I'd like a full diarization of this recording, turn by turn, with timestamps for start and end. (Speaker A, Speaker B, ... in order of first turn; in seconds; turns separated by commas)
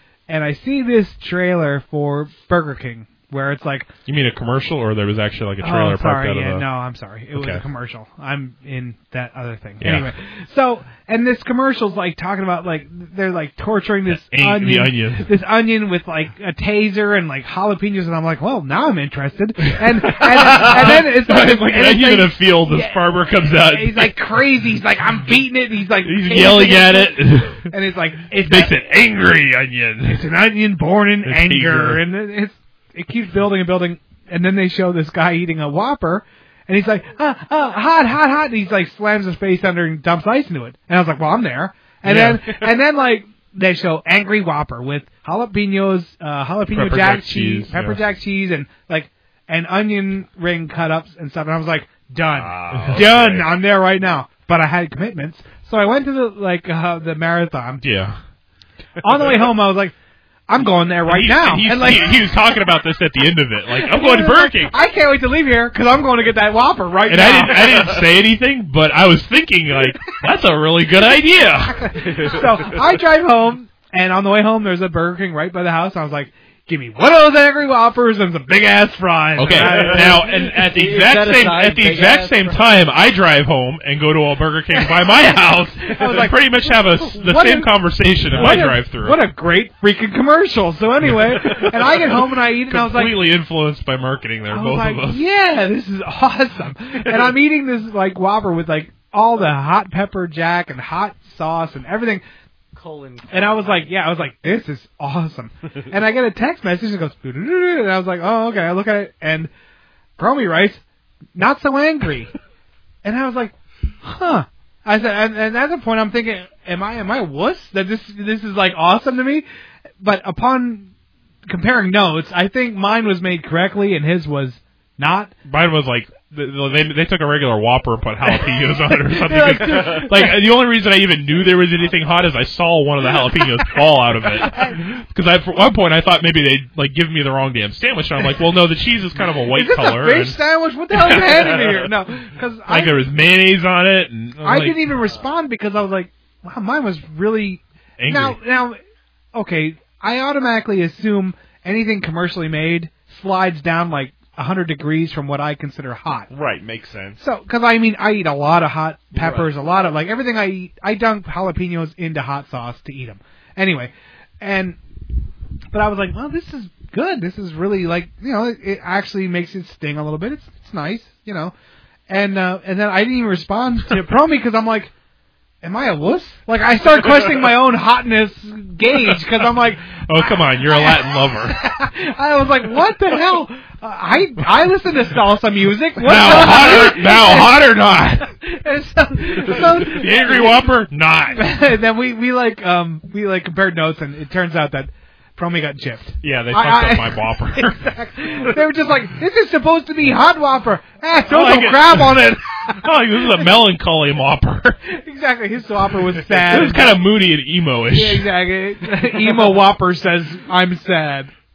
Speaker A: 0.3-3.9, Speaker B: 4.0-6.6, Speaker A: 5.6-28.7, Speaker B: 7.3-7.6, Speaker B: 9.8-10.1, Speaker B: 14.2-15.3, Speaker B: 20.0-24.3, Speaker B: 26.0-27.7, Speaker B: 28.4-30.2, Speaker A: 30.0-57.9, Speaker B: 31.2-32.0, Speaker B: 42.0-42.7, Speaker B: 46.7-48.0, Speaker C: 52.3-53.5, Speaker B: 52.7-53.1, Speaker B: 57.8-58.1, Speaker A: 59.0-59.9, Speaker A: 60.5-62.6, Speaker B: 61.0-64.7, Speaker A: 63.7-68.0, Speaker B: 67.1-72.0, Speaker A: 71.4-80.4, Speaker C: 72.0-72.7, Speaker B: 79.4-89.2, Speaker D: 80.0-82.6, Speaker A: 84.7-85.1, Speaker A: 85.8-87.7, Speaker A: 88.3-93.3, Speaker B: 91.1-95.2, Speaker A: 94.5-102.2, Speaker D: 102.7-104.0, Speaker A: 103.3-109.5, Speaker A: 110.2-110.8, Speaker A: 111.3-112.3, Speaker A: 113.0-119.5, Speaker A: 120.0-120.9, Speaker A: 121.5-125.3, Speaker B: 125.5-140.4, Speaker A: 128.5-130.4, Speaker A: 134.3-134.8, Speaker A: 139.2-143.0, Speaker B: 140.9-141.8, Speaker B: 142.7-144.9, Speaker A: 144.4-148.8, Speaker B: 148.0-148.4, Speaker A: 149.3-156.3, Speaker C: 156.3-157.2, Speaker A: 157.2-164.8, Speaker D: 159.1-159.6, Speaker A: 165.7-171.5, Speaker A: 172.1-174.9, Speaker A: 175.6-190.7, Speaker B: 180.0-181.6, Speaker B: 186.0-188.3, Speaker B: 189.4-191.5, Speaker A: 191.3-203.5, Speaker B: 196.2-198.5, Speaker B: 201.3-204.8, Speaker A: 204.8-207.1, Speaker B: 206.4-208.3, Speaker A: 207.9-211.3